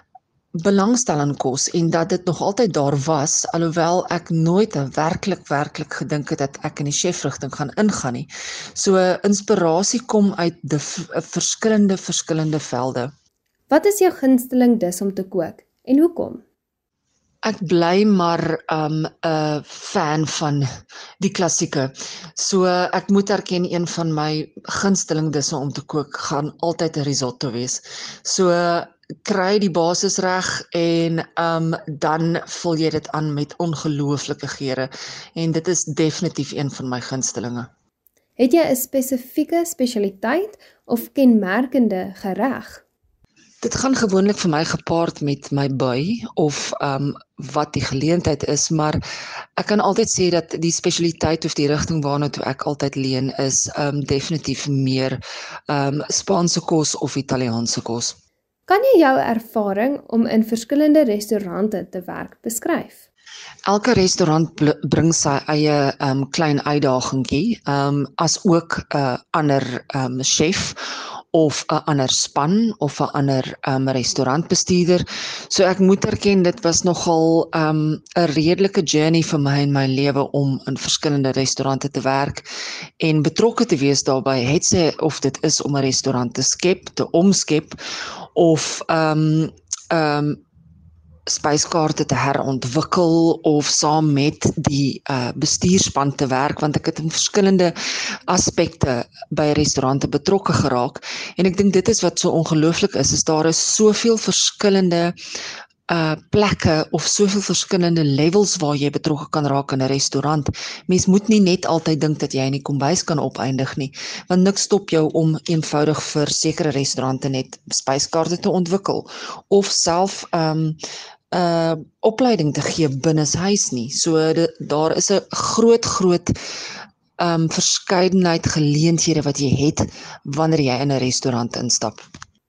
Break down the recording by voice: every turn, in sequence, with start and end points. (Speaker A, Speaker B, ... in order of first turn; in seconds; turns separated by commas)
Speaker A: 0.6-13.1, Speaker B: 13.7-16.4, Speaker A: 17.4-20.7, Speaker A: 21.2-37.7, Speaker B: 38.4-42.8, Speaker A: 43.6-49.0, Speaker A: 49.6-58.1, Speaker B: 58.7-63.0, Speaker A: 63.7-82.5, Speaker A: 83.0-90.4, Speaker A: 91.3-105.1, Speaker A: 105.9-120.8, Speaker A: 121.3-126.4, Speaker A: 127.2-132.0